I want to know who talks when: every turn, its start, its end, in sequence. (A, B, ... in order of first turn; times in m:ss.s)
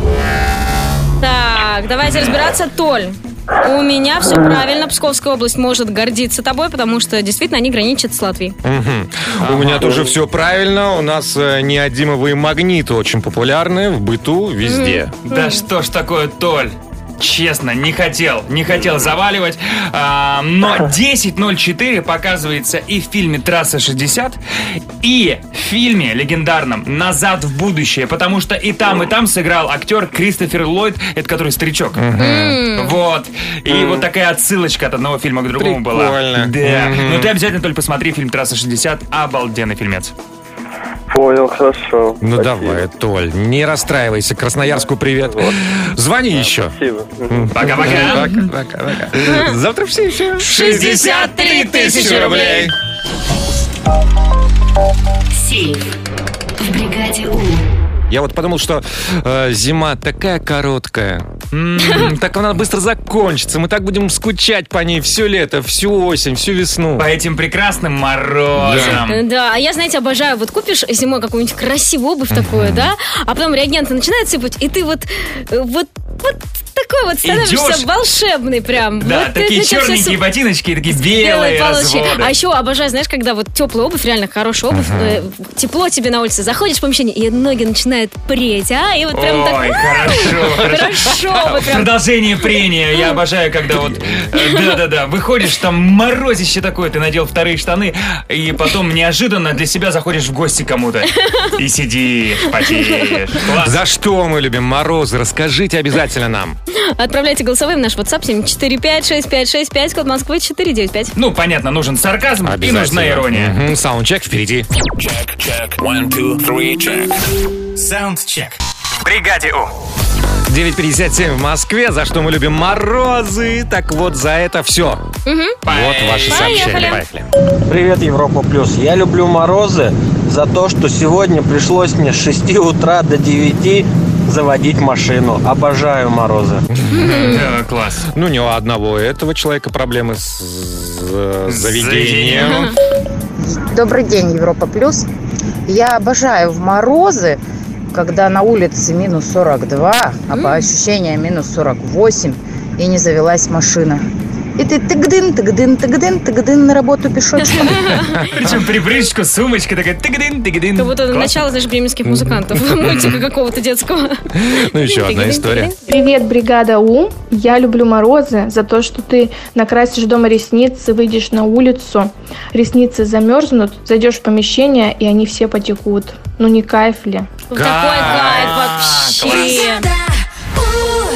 0:01.2-0:08.6 A
0:02.0-0:02.4 B
0:08.6-0:15.1 C
0:09.4-0:10.0 B
0:14.6-0:15.6 A
0:15.3-0:24.4 B
0:25.0-0:32.0 B
0:32.0-0:32.6 C
0:32.2-0:33.0 A
0:32.8-0:40.1 B
0:33.7-0:34.0 D
0:35.6-0:37.3 C
0:41.1-0:42.8 D
0:42.2-0:52.7 C
0:45.2-0:45.5 D
0:46.3-0:47.4 D
0:47.5-0:49.1 B
0:49.2-0:49.5 A
0:50.4-0:52.7 A
0:55.3-0:56.0 E
0:56.6-0:57.6 E
0:58.1-1:01.3 C
1:01.5-1:02.2 B
1:01.9-1:07.1 C
1:07.0-1:09.2 B
1:08.6-1:09.0 C
1:08.7-1:20.2 A
1:12.3-1:12.9 C
1:17.2-1:17.9 B
1:19.0-1:22.3 B
1:20.9-1:31.9 A
1:24.7-1:25.2 C
1:29.1-1:43.8 B
1:34.3-1:34.7 A
1:41.2-1:41.5 A
1:42.8-1:43.1 A
1:43.6-1:46.6 C
1:46.8-1:51.1 A
1:51.2-1:53.6 B
1:52.4-1:54.7 C
1:55.0-1:57.2 F
1:57.8-1:58.6 F
1:59.0-1:59.6 B
2:00.5-2:05.0 C
2:05.3-2:05.6 A
2:05.6-2:06.8 B
2:05.7-2:07.3 C
2:06.2-2:07.0 A
2:07.7-2:16.6 G
2:16.7-2:17.6 C
2:16.9-2:17.4 A
2:17.1-2:18.1 B
2:18.1-2:22.7 C
2:21.5-2:22.6 B
2:22.4-2:22.7 A
2:23.4-2:25.1 H
2:25.7-2:27.4 H
2:27.9-2:34.0 H
2:30.3-2:30.6 A
2:34.6-2:37.7 H
2:37.4-2:38.3 A
2:38.2-2:38.5 C
2:38.3-2:41.4 B
2:40.8-2:44.2 A
2:42.1-2:43.1 C
2:42.8-2:43.2 B
2:44.4-2:45.7 C
2:44.8-2:45.8 A
2:45.9-2:57.3 I
2:57.5-2:59.9 A
2:57.6-2:58.5 C
2:57.6-2:59.6 B
2:59.3-2:59.9 E